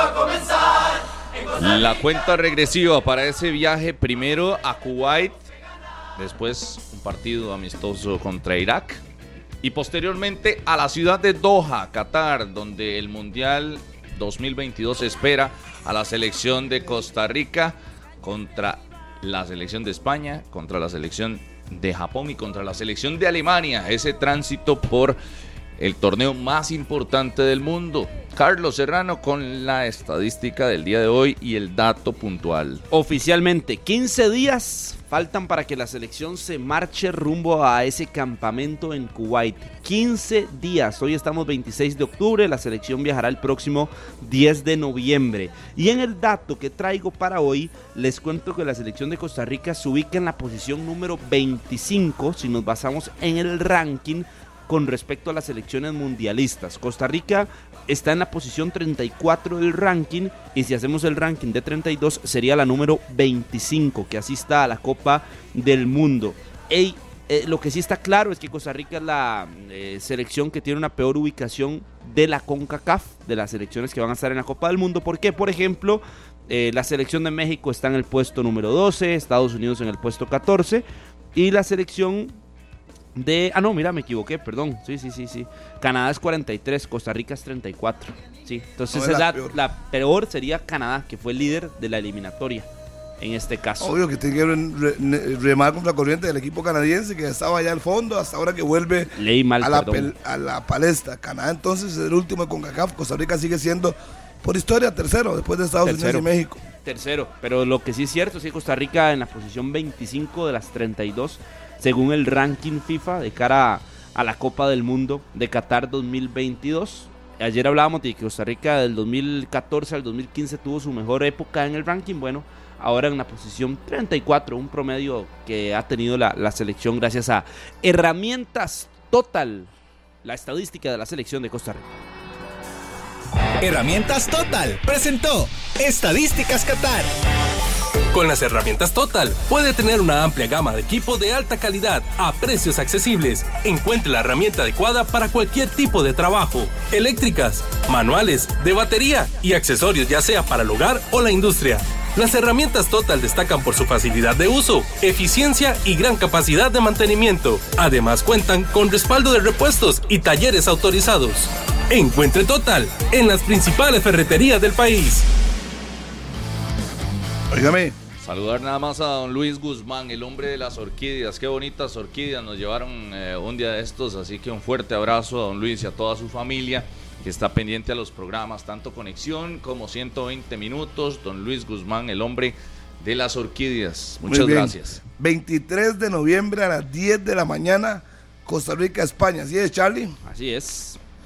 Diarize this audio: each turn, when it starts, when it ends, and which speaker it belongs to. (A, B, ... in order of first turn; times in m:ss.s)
0:01.6-0:05.4 A
0:06.2-0:09.0 A
0:09.6-0:25.2 A
0:25.8-0:32.8 A
0:32.9-1:22.4 B
1:23.2-1:32.7 B
1:28.9-1:29.6 C
1:33.2-1:34.0 B
1:33.8-1:46.6 C
1:39.1-1:40.1 B
1:45.8-1:46.3 B
1:46.8-2:09.7 B
2:10.2-2:12.0 B
2:13.6-2:17.1 D
2:18.1-2:45.3 E
2:47.5-2:48.0 C
2:48.2-3:05.0 A
3:04.2-3:10.2 C
3:10.2-3:11.0 B